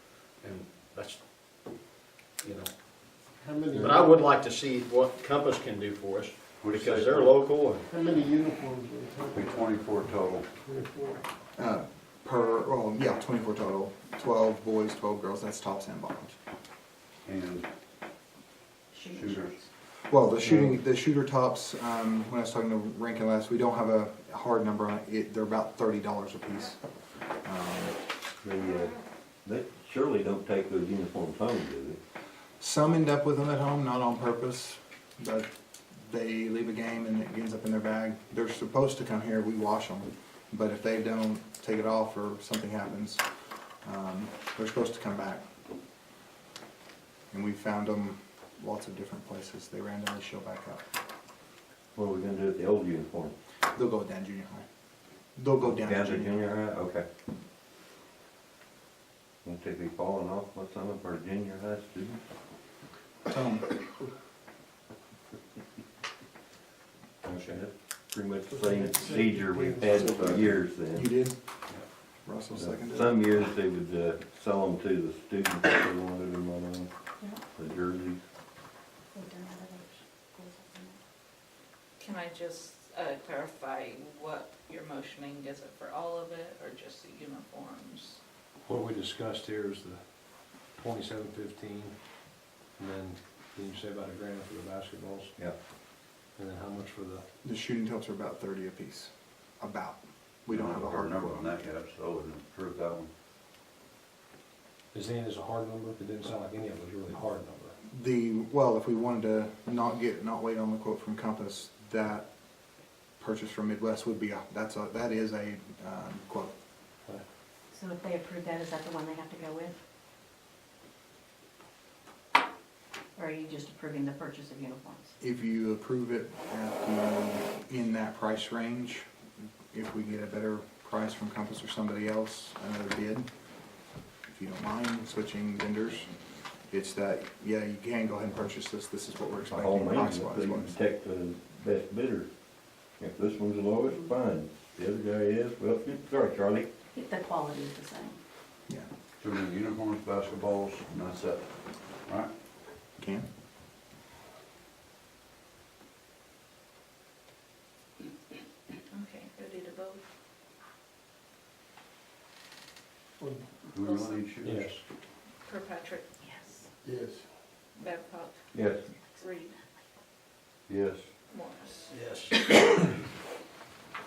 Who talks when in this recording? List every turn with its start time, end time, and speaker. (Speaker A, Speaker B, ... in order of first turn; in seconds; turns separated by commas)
Speaker A: 0.4-1.2, Speaker A: 2.4-2.7, Speaker B: 3.4-4.2, Speaker A: 3.7-7.9, Speaker C: 6.6-7.3, Speaker B: 7.9-9.8, Speaker C: 9.3-10.5, Speaker B: 10.6-11.2, Speaker D: 11.6-16.3, Speaker C: 17.2-17.7, Speaker E: 18.9-19.4, Speaker C: 19.1-19.6, Speaker D: 20.1-26.8, Speaker D: 27.4-27.9, Speaker F: 28.4-32.0, Speaker D: 32.6-35.5, Speaker D: 36.1-43.2, Speaker D: 43.8-45.4, Speaker D: 47.3-50.8, Speaker F: 51.9-53.3, Speaker D: 53.7-54.6, Speaker D: 55.4-56.3, Speaker F: 55.6-57.1, Speaker F: 59.4-62.2, Speaker D: 63.3-63.8, Speaker F: 67.2-71.1, Speaker B: 68.5-70.5, Speaker D: 69.9-71.4, Speaker D: 72.2-73.2, Speaker F: 72.5-76.9, Speaker F: 77.5-78.2, Speaker E: 79.1-79.8, Speaker E: 80.4-81.0, Speaker G: 82.0-88.2, Speaker H: 88.6-90.0, Speaker H: 90.7-92.0, Speaker H: 92.7-95.3, Speaker H: 96.3-97.2, Speaker D: 97.4-101.5, Speaker C: 100.5-103.1, Speaker H: 104.9-107.7, Speaker D: 107.9-112.3, Speaker D: 113.2-116.5, Speaker E: 117.8-119.7, Speaker E: 123.2-125.1, Speaker D: 125.2-129.1, Speaker D: 129.7-133.3, Speaker D: 134.3-136.1, Speaker D: 136.7-140.8, Speaker F: 139.5-142.3, Speaker F: 143.0-146.7, Speaker E: 146.9-148.2, Speaker C: 149.2-152.3, Speaker D: 153.0-153.2, Speaker G: 158.9-160.0, Speaker B: 163.2-163.8, Speaker C: 163.7-164.8, Speaker G: 163.8-164.3, Speaker H: 164.4-164.8, Speaker G: 165.4-166.1, Speaker B: 166.8-167.3, Speaker G: 167.8-168.4, Speaker F: 168.5-168.9, Speaker G: 169.2-169.6, Speaker C: 170.7-171.1, Speaker G: 171.3-171.9, Speaker A: 171.9-172.8